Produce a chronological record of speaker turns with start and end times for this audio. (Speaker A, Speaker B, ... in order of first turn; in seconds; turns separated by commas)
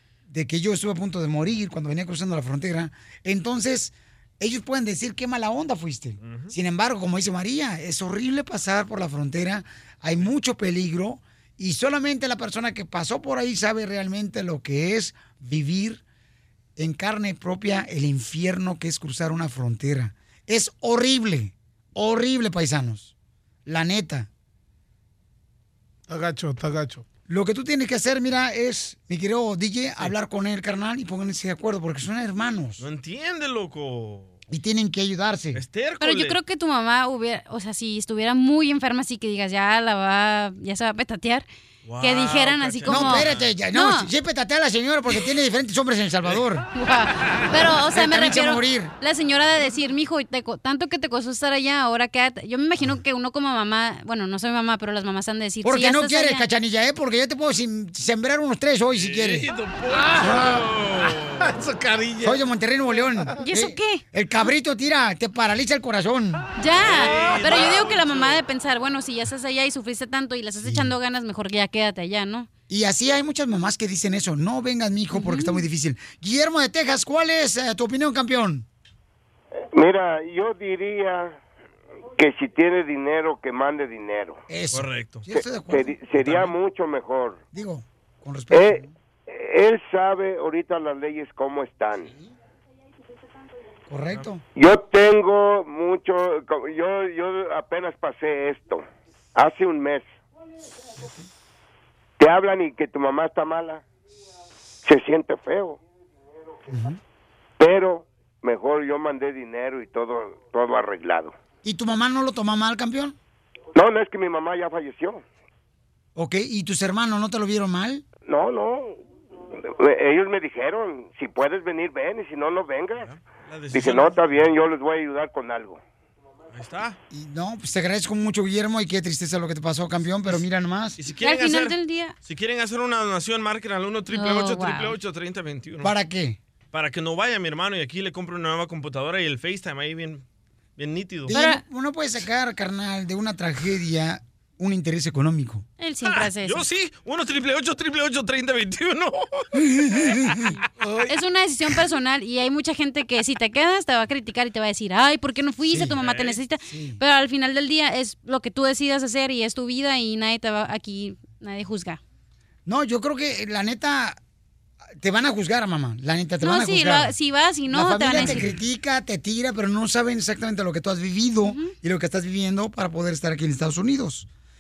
Speaker A: 0.3-16.0, Speaker B: 6.2-6.5, Speaker A: 16.8-23.1, Speaker A: 23.7-24.3, Speaker C: 26.1-27.1, Speaker A: 27.3-32.8, Speaker B: 32.8-34.4, Speaker A: 34.5-35.6, Speaker B: 35.5-36.4, Speaker D: 36.0-41.5, Speaker B: 41.9-43.5, Speaker D: 42.0-44.1, Speaker A: 42.9-46.7, Speaker D: 46.8-56.5, Speaker A: 47.9-48.9, Speaker A: 55.6-59.5, Speaker B: 58.9-61.5, Speaker C: 59.9-62.4, Speaker A: 62.2-66.5, Speaker D: 63.4-64.0, Speaker D: 66.6-72.5, Speaker B: 66.8-68.4, Speaker C: 67.0-67.7, Speaker A: 70.6-70.9, Speaker A: 72.7-78.7, Speaker D: 75.1-75.6, Speaker E: 79.7-81.4, Speaker E: 82.2-84.4, Speaker A: 84.5-86.5, Speaker B: 84.7-85.2, Speaker E: 85.3-87.4, Speaker A: 87.5-88.9, Speaker E: 88.5-92.1, Speaker A: 93.9-94.4, Speaker E: 94.6-98.8, Speaker E: 99.4-100.2, Speaker A: 101.0-101.3, Speaker E: 102.2-103.8, Speaker E: 104.8-105.8, Speaker A: 106.7-107.0, Speaker E: 107.6-111.3, Speaker A: 111.6-113.2, Speaker E: 113.8-115.2, Speaker A: 116.2-118.0, Speaker E: 118.2-119.0, Speaker E: 119.6-123.1, Speaker B: 123.0-124.5, Speaker E: 123.7-125.8, Speaker B: 126.5-127.0, Speaker A: 127.1-131.0, Speaker B: 131.0-135.9, Speaker D: 131.2-132.2, Speaker D: 134.1-135.0, Speaker A: 135.8-136.4, Speaker B: 136.7-140.2, Speaker B: 140.8-141.4, Speaker A: 141.3-145.7, Speaker D: 141.3-141.6, Speaker D: 145.8-146.6, Speaker B: 146.1-150.1, Speaker A: 149.6-150.5, Speaker C: 150.8-151.2, Speaker D: 151.1-162.0, Speaker A: 155.7-156.0, Speaker B: 156.0-156.4, Speaker A: 156.7-157.0, Speaker A: 162.7-164.2, Speaker A: 165.0-167.1, Speaker D: 166.4-168.6, Speaker A: 167.7-174.3, Speaker D: 171.4-171.7